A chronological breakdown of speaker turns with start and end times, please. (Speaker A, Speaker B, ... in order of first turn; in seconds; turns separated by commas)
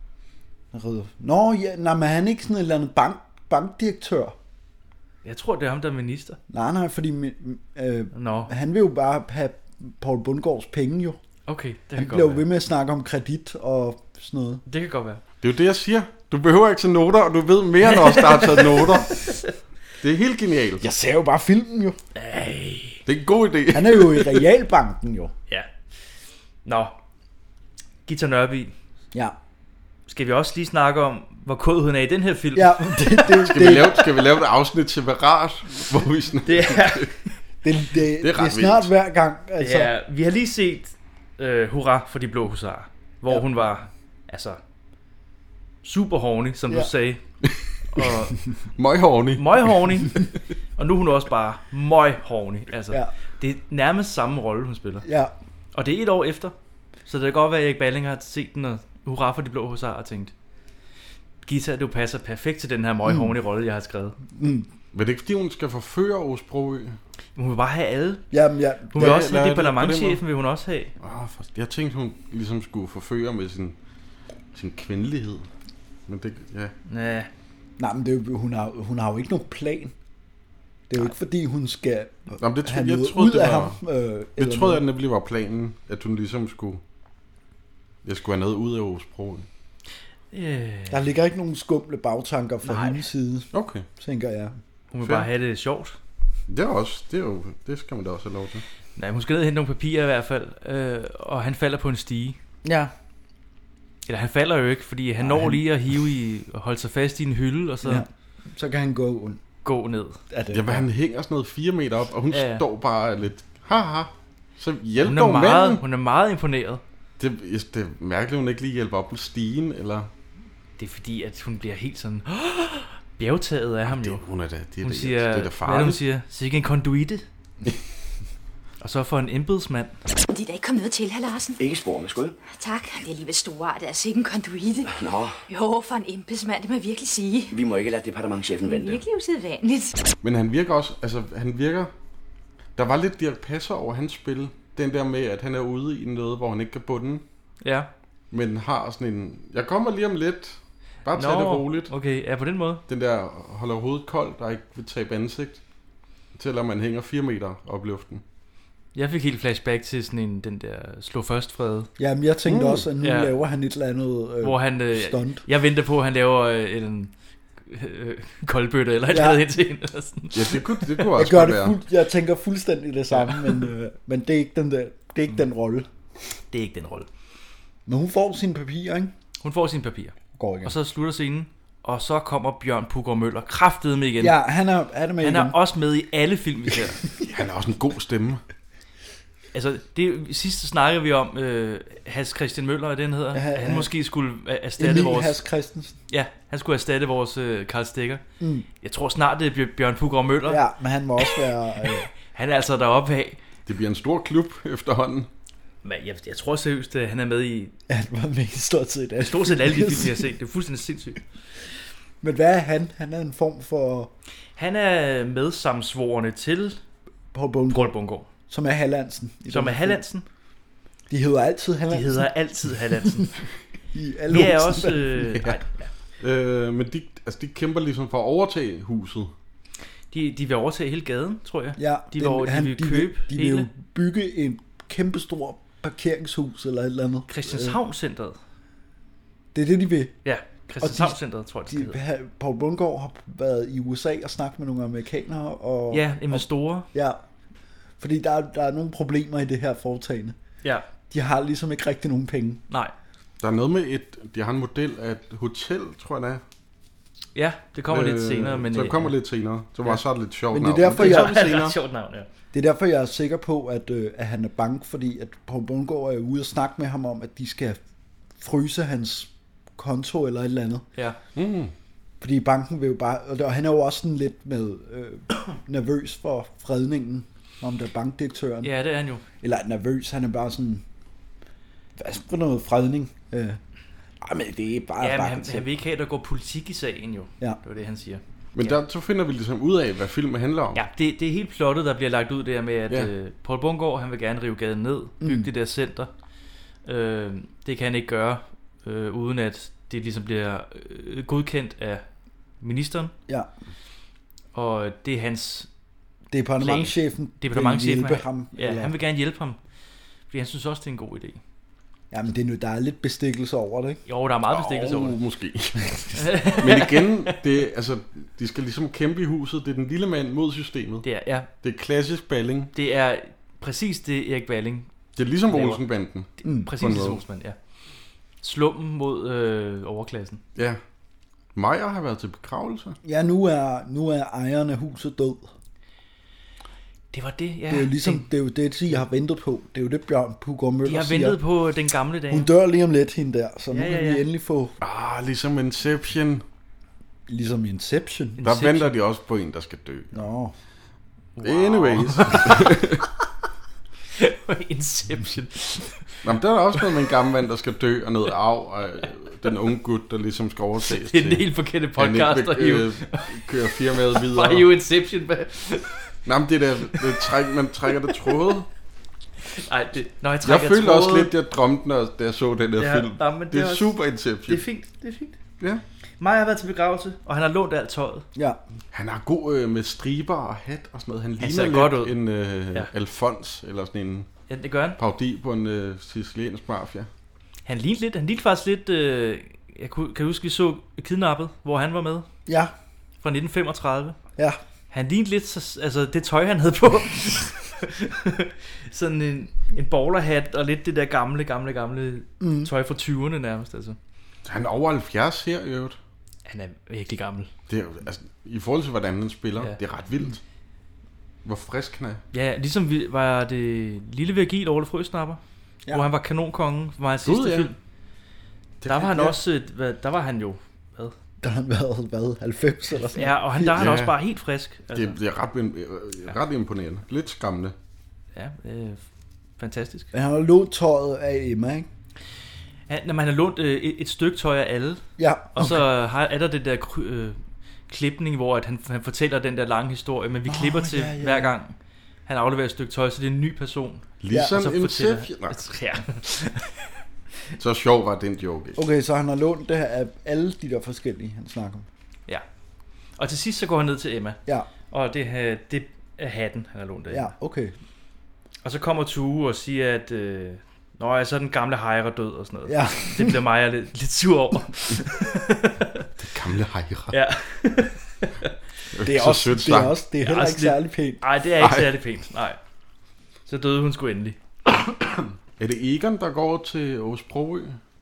Speaker A: 0.7-4.4, Speaker B: 5.2-6.4, Speaker A: 6.5-11.2, Speaker B: 8.1-8.5, Speaker B: 11.5-12.4, Speaker A: 12.0-14.6, Speaker B: 14.7-15.2, Speaker C: 15.4-19.3, Speaker B: 18.1-19.3, Speaker C: 20.0-20.8, Speaker A: 20.8-22.0, Speaker B: 22.1-23.0, Speaker C: 23.1-24.4, Speaker A: 23.7-25.3, Speaker B: 26.6-26.9, Speaker B: 28.1-28.7, Speaker B: 30.1-33.5, Speaker A: 32.5-34.1, Speaker C: 33.4-37.1, Speaker B: 36.5-37.1, Speaker A: 37.6-39.9, Speaker C: 38.2-38.9, Speaker B: 39.6-44.6, Speaker B: 45.8-47.2, Speaker C: 47.4-48.0, Speaker B: 47.9-48.4, Speaker C: 48.8-49.7, Speaker B: 49.4-50.2, Speaker B: 50.8-55.0, Speaker A: 55.0-55.3, Speaker B: 55.7-56.5, Speaker B: 57.1-60.3, Speaker B: 61.4-64.2, Speaker A: 63.0-63.3, Speaker A: 64.3-64.7, Speaker C: 64.9-67.0, Speaker B: 67.3-68.3, Speaker A: 68.3-69.2, Speaker B: 68.9-70.9, Speaker C: 69.0-70.2, Speaker C: 71.0-73.7, Speaker C: 74.5-75.5, Speaker C: 76.1-76.7, Speaker B: 76.9-77.3, Speaker A: 77.8-79.9, Speaker A: 80.9-84.8, Speaker C: 82.4-83.8, Speaker C: 84.4-86.8, Speaker C: 88.0-89.5, Speaker B: 90.3-91.0, Speaker A: 90.9-94.6, Speaker B: 92.6-93.0, Speaker C: 93.5-93.9, Speaker B: 94.9-96.0, Speaker C: 95.0-95.3, Speaker C: 96.5-98.6, Speaker B: 99.0-102.4, Speaker A: 102.6-102.9, Speaker B: 104.1-108.0, Speaker A: 105.2-105.6, Speaker A: 107.8-109.4, Speaker B: 109.6-110.2, Speaker A: 110.3-110.8, Speaker C: 110.5-115.8, Speaker B: 112.3-112.6, Speaker B: 115.0-116.8, Speaker C: 117.2-120.1, Speaker B: 120.8-124.2, Speaker C: 123.9-126.0, Speaker B: 124.8-127.2, Speaker B: 128.8-129.9, Speaker D: 130.3-131.6, Speaker E: 131.6-132.4, Speaker D: 132.5-134.9, Speaker E: 134.9-135.3, Speaker D: 135.5-137.6, Speaker E: 137.5-139.0, Speaker D: 138.6-140.0, Speaker C: 140.2-141.9, Speaker C: 142.8-147.2, Speaker B: 147.6-147.9, Speaker C: 148.3-151.9, Speaker B: 151.1-152.8, Speaker C: 152.9-155.6, Speaker C: 156.3-158.2, Speaker B: 158.9-161.9, Speaker A: 162.0-165.4, Speaker C: 162.4-162.8, Speaker B: 163.0-163.3, Speaker B: 164.4-167.1, Speaker B: 167.6-171.0, Speaker A: 169.1-169.4, Speaker C: 170.3-171.8, Speaker A: 171.1-175.9, Speaker B: 173.1-173.5, Speaker B: 176.5-177.1, Speaker A: 177.8-179.1, Speaker B: 179.4-184.3, Speaker A: 180.3-180.7, Speaker A: 184.2-185.6, Speaker B: 185.2-187.0, Speaker C: 187.2-188.4, Speaker B: 189.5-195.4, Speaker A: 193.3-193.9, Speaker A: 194.8-195.9, Speaker B: 196.1-198.2, Speaker A: 198.4-198.7, Speaker B: 198.8-200.6, Speaker A: 200.4-202.1, Speaker B: 201.2-203.4, Speaker C: 203.7-205.3, Speaker B: 205.8-207.7, Speaker A: 207.9-210.3, Speaker B: 209.2-211.2, Speaker A: 212.2-214.1, Speaker B: 214.6-216.8, Speaker A: 217.3-217.9, Speaker B: 217.7-218.3, Speaker A: 218.5-220.0, Speaker B: 219.5-220.2, Speaker A: 221.1-222.3, Speaker B: 221.9-223.3, Speaker A: 223.0-223.2, Speaker A: 223.9-225.6, Speaker B: 224.3-225.9, Speaker C: 226.2-229.3, Speaker B: 230.1-233.7, Speaker A: 231.8-237.8, Speaker B: 237.3-238.4, Speaker A: 239.5-240.2, Speaker B: 240.2-242.0, Speaker A: 240.8-247.2, Speaker B: 245.9-246.9, Speaker A: 248.0-250.3, Speaker A: 251.1-252.6, Speaker C: 253.4-256.4, Speaker B: 257.3-259.1, Speaker C: 257.9-261.8, Speaker A: 260.5-261.4, Speaker B: 260.9-262.3, Speaker A: 262.5-267.8, Speaker A: 268.4-270.9, Speaker C: 271.4-271.7, Speaker A: 272.2-278.7, Speaker B: 278.6-279.2, Speaker A: 279.4-280.8, Speaker A: 282.0-283.6, Speaker A: 284.2-285.7, Speaker B: 285.0-288.8, Speaker C: 288.5-290.8, Speaker B: 290.7-296.1, Speaker A: 295.2-295.5, Speaker B: 296.9-302.0, Speaker B: 302.6-303.1, Speaker B: 304.5-305.7, Speaker A: 306.3-308.9, Speaker B: 306.6-309.6, Speaker B: 310.3-311.4, Speaker A: 312.1-314.0, Speaker B: 314.1-315.2, Speaker C: 314.5-321.1, Speaker B: 316.1-317.4, Speaker B: 321.0-321.5, Speaker C: 321.6-322.7, Speaker B: 322.7-324.9, Speaker C: 325.1-327.2, Speaker B: 325.5-325.8, Speaker B: 326.4-327.6, Speaker A: 326.4-326.7, Speaker B: 328.4-330.4, Speaker C: 331.5-333.0, Speaker A: 333.0-335.5, Speaker B: 337.1-338.3, Speaker A: 337.7-341.4, Speaker B: 340.8-342.5, Speaker A: 342.3-344.7, Speaker B: 343.7-344.2, Speaker C: 344.8-346.4, Speaker A: 347.3-348.4, Speaker B: 348.4-348.9, Speaker C: 348.4-350.2, Speaker A: 350.1-350.5, Speaker B: 351.4-352.7, Speaker C: 351.4-353.1, Speaker B: 354.1-356.2, Speaker C: 356.2-364.7, Speaker B: 360.8-366.1, Speaker C: 366.2-368.7, Speaker B: 369.5-371.3, Speaker C: 370.4-374.6, Speaker B: 372.8-373.9, Speaker B: 374.5-375.4, Speaker B: 376.2-378.2, Speaker A: 378.3-378.6, Speaker C: 378.9-384.3, Speaker B: 381.4-382.1, Speaker B: 384.5-385.0, Speaker C: 385.0-387.1, Speaker B: 387.6-392.3, Speaker A: 392.4-392.7, Speaker B: 393.2-394.2, Speaker B: 394.9-404.0, Speaker A: 402.4-402.7, Speaker C: 404.4-406.0, Speaker B: 406.4-407.5, Speaker C: 407.7-410.4, Speaker C: 411.4-412.2, Speaker B: 412.3-417.8, Speaker C: 417.2-417.7, Speaker C: 418.8-419.3, Speaker B: 418.9-421.1, Speaker A: 421.4-423.8, Speaker B: 423.1-425.1, Speaker C: 423.7-424.1, Speaker C: 424.9-427.7, Speaker B: 428.3-429.0, Speaker B: 429.6-430.1, Speaker A: 430.1-431.9, Speaker B: 432.9-437.4, Speaker A: 435.2-435.9, Speaker B: 437.9-441.8, Speaker A: 440.4-441.5, Speaker B: 442.3-446.8, Speaker C: 444.2-445.6, Speaker C: 447.6-448.8, Speaker A: 448.8-451.9, Speaker B: 453.2-454.4, Speaker B: 454.9-457.3, Speaker A: 457.1-457.7, Speaker B: 458.6-466.1, Speaker A: 462.6-463.4, Speaker C: 466.2-467.1, Speaker B: 467.1-468.5, Speaker C: 468.9-469.9, Speaker A: 469.0-471.2, Speaker B: 470.2-472.6, Speaker C: 471.6-471.9, Speaker B: 473.5-474.4, Speaker C: 475.6-477.8